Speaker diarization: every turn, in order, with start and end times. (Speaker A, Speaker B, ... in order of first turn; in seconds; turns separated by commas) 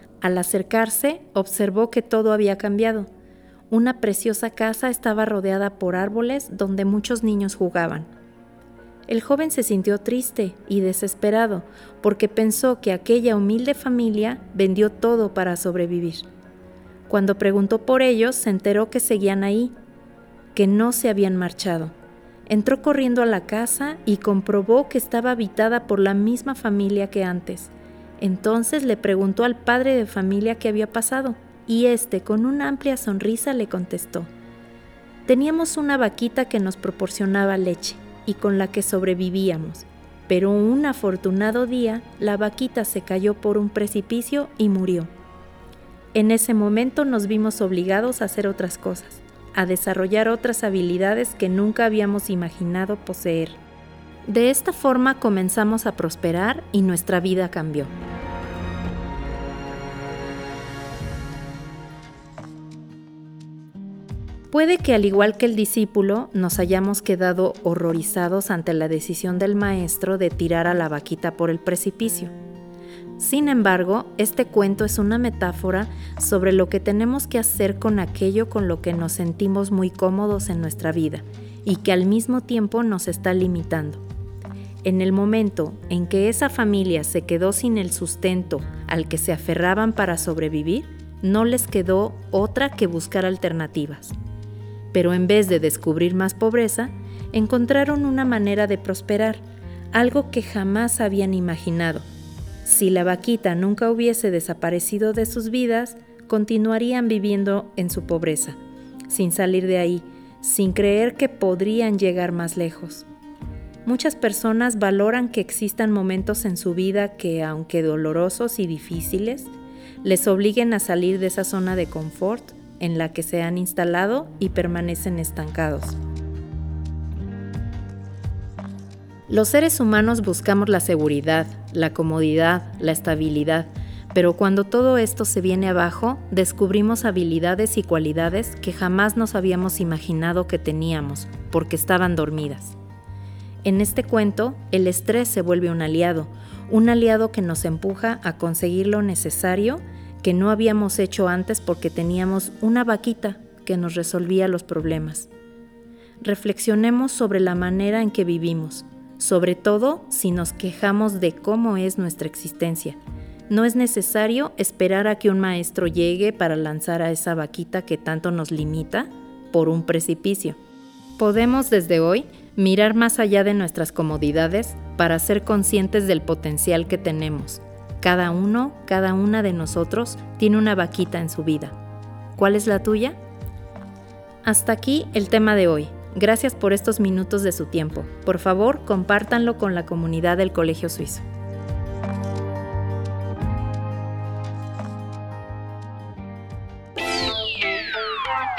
Speaker A: 0.2-3.1, Speaker A: 3.7-8.1, Speaker A: 9.1-16.2, Speaker A: 17.1-19.7, Speaker A: 20.5-21.9, Speaker A: 22.5-34.3, Speaker A: 35.2-45.1, Speaker A: 46.1-53.6, Speaker A: 54.2-57.9, Speaker A: 64.5-72.3, Speaker A: 73.2-84.0, Speaker A: 84.8-94.1, Speaker A: 94.9-99.4, Speaker A: 99.9-102.0, Speaker A: 102.6-108.6, Speaker A: 109.1-113.0, Speaker A: 113.8-126.0, Speaker A: 129.3-142.7, Speaker A: 143.6-155.3, Speaker A: 156.2-163.0, Speaker A: 163.5-170.6, Speaker A: 171.2-181.7, Speaker A: 182.3-183.2, Speaker A: 184.4-191.2